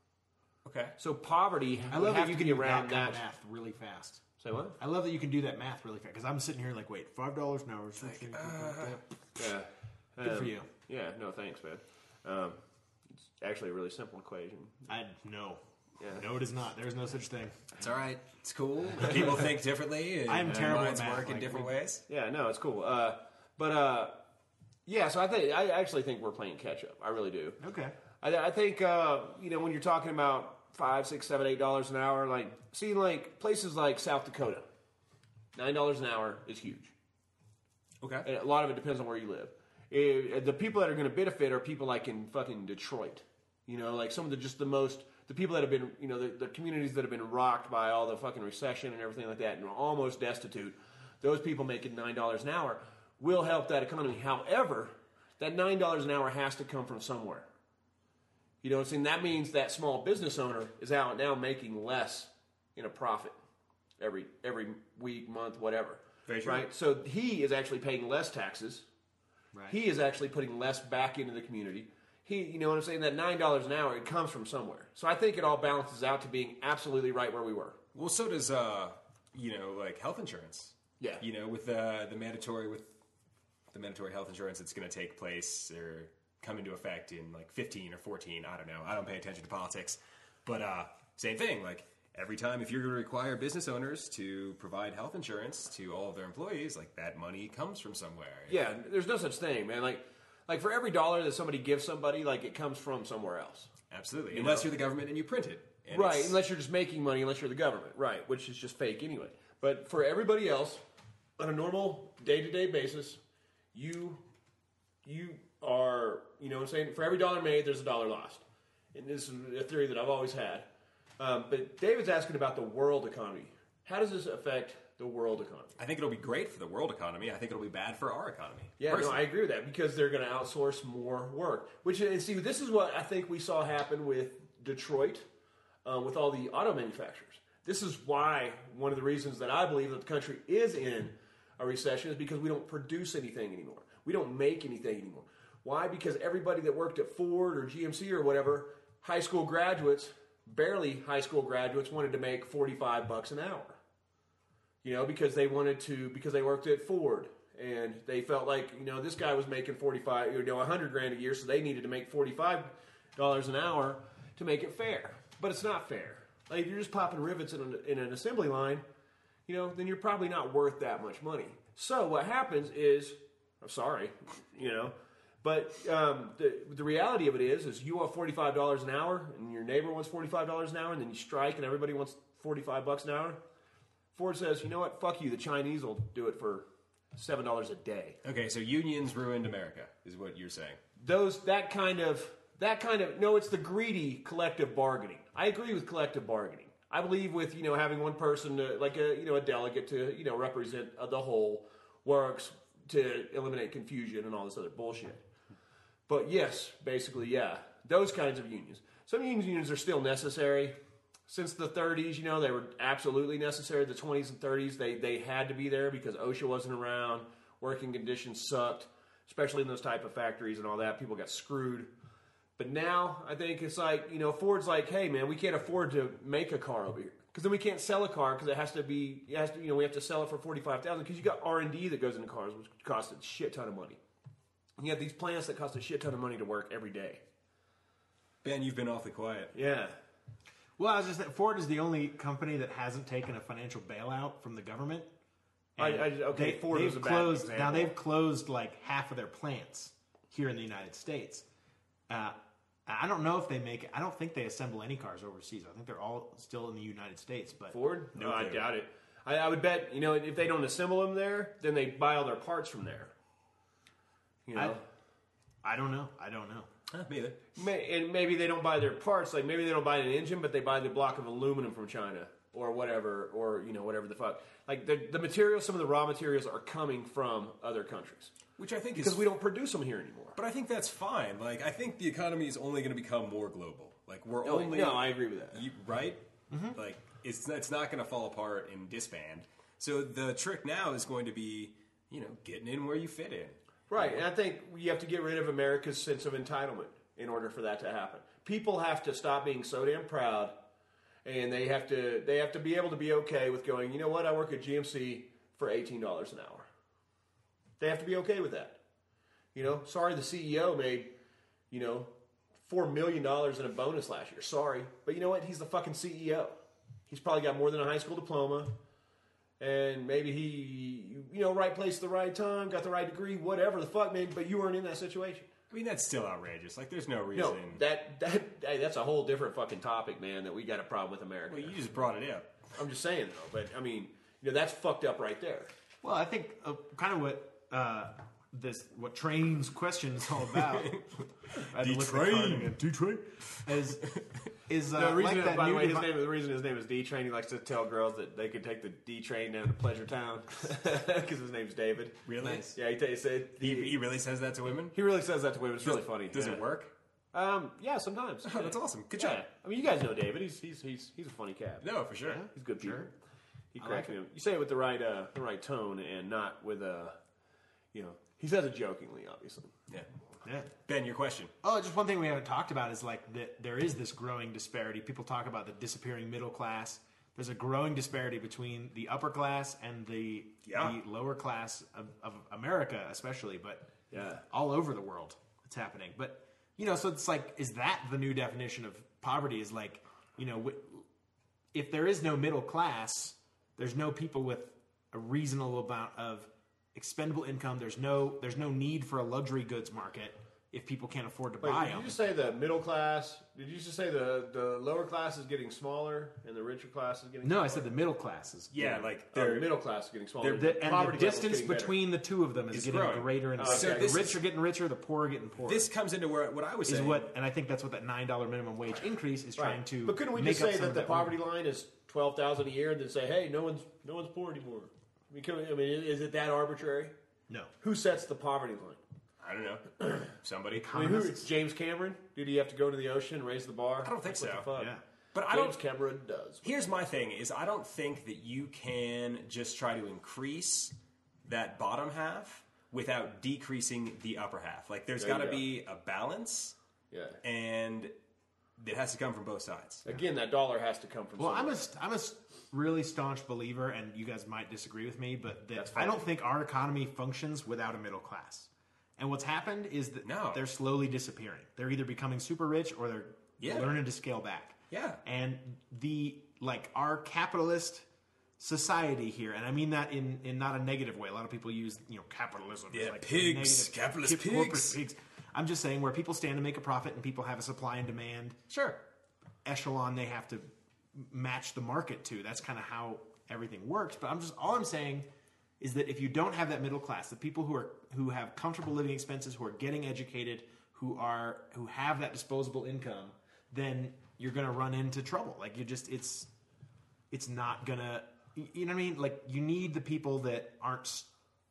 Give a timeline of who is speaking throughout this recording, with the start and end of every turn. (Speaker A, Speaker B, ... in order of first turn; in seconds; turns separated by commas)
Speaker A: 0.6-0.9, Speaker B: 1.0-3.2, Speaker C: 1.9-4.2, Speaker B: 4.4-4.8, Speaker C: 4.8-9.0, Speaker A: 8.0-9.0, Speaker B: 9.3-12.6, Speaker C: 10.2-10.7, Speaker B: 13.4-14.8, Speaker C: 14.9-17.7, Speaker A: 17.8-22.0, Speaker C: 20.2-21.7, Speaker B: 22.1-24.1, Speaker B: 24.9-27.6, Speaker C: 27.6-27.9, Speaker B: 28.2-34.6, Speaker B: 35.5-36.9, Speaker A: 38.0-38.3, Speaker B: 38.2-57.5, Speaker B: 58.6-63.4, Speaker B: 64.0-68.9, Speaker A: 66.3-66.6, Speaker C: 69.5-69.8, Speaker B: 69.7-77.8, Speaker A: 77.9-82.9, Speaker A: 83.7-98.6, Speaker B: 98.5-103.7, Speaker A: 103.9-106.4, Speaker B: 104.3-104.7, Speaker B: 105.9-110.8, Speaker B: 111.4-113.2, Speaker B: 113.7-114.2, Speaker B: 115.0-120.7, Speaker B: 121.2-125.7, Speaker A: 125.8-129.2, Speaker B: 128.8-135.2, Speaker B: 135.8-153.8, Speaker B: 154.8-168.8, Speaker B: 169.5-183.4, Speaker B: 184.1-188.2, Speaker A: 188.2-190.8, Speaker B: 191.0-205.2, Speaker B: 206.1-210.8, Speaker B: 211.3-221.9, Speaker B: 222.6-234.0, Speaker B: 234.8-237.2, Speaker A: 238.4-239.5, Speaker B: 239.5-239.9, Speaker C: 240.8-245.1, Speaker C: 245.8-251.4, Speaker B: 245.8-247.9, Speaker C: 252.1-257.8, Speaker B: 257.7-263.1, Speaker A: 258.2-258.6, Speaker B: 264.4-264.8, Speaker C: 265.6-266.7, Speaker A: 266.9-267.4, Speaker B: 267.6-278.4, Speaker A: 278.6-279.3, Speaker B: 279.0-280.4, Speaker A: 280.4-294.2, Speaker B: 284.4-285.6, Speaker C: 286.5-286.8, Speaker B: 293.9-300.5, Speaker B: 301.2-306.7, Speaker B: 307.8-308.8, Speaker B: 309.5-311.1, Speaker B: 311.7-312.1, Speaker B: 312.6-316.6, Speaker B: 317.1-318.7, Speaker B: 319.6-325.5, Speaker A: 325.7-327.8, Speaker B: 327.3-331.8, Speaker A: 331.5-332.5, Speaker B: 332.8-335.7, Speaker C: 336.0-341.0, Speaker A: 340.6-342.8, Speaker C: 341.6-344.1, Speaker C: 344.6-346.1, Speaker B: 344.9-354.0, Speaker A: 352.2-352.8, Speaker A: 353.6-354.9, Speaker B: 354.9-356.6, Speaker A: 355.8-356.9, Speaker B: 357.3-361.9, Speaker A: 358.4-359.4, Speaker A: 361.8-362.5, Speaker C: 362.2-363.1, Speaker B: 362.5-363.1, Speaker B: 363.7-367.2, Speaker C: 363.8-364.1, Speaker B: 367.9-369.7, Speaker C: 370.4-370.7, Speaker A: 370.8-371.5, Speaker C: 371.6-383.9, Speaker A: 380.6-380.9, Speaker B: 384.1-384.4, Speaker C: 384.4-391.1, Speaker C: 391.7-402.2, Speaker B: 401.6-407.9, Speaker C: 407.4-409.1, Speaker A: 408.7-409.7, Speaker B: 409.3-411.9, Speaker C: 410.4-415.9, Speaker A: 412.7-414.4, Speaker B: 413.6-414.2, Speaker A: 415.6-417.3, Speaker C: 416.9-421.4, Speaker B: 419.6-427.1, Speaker B: 427.8-429.0, Speaker A: 429.4-430.9, Speaker C: 430.7-431.5, Speaker B: 430.9-434.9, Speaker A: 434.0-434.7, Speaker C: 434.7-435.0, Speaker A: 435.3-435.8, Speaker B: 435.4-436.6, Speaker A: 436.6-440.9, Speaker A: 441.4-446.8, Speaker B: 445.2-445.6, Speaker B: 447.1-447.4, Speaker A: 447.4-448.1, Speaker A: 448.8-450.0, Speaker B: 450.1-451.8, Speaker C: 451.4-468.1, Speaker B: 455.7-456.2, Speaker A: 460.2-460.6, Speaker A: 463.6-463.9, Speaker A: 464.9-465.2, Speaker C: 468.6-478.6, Speaker A: 472.9-475.0, Speaker A: 478.7-479.0, Speaker C: 479.6-485.3, Speaker C: 485.8-496.5, Speaker C: 497.3-501.3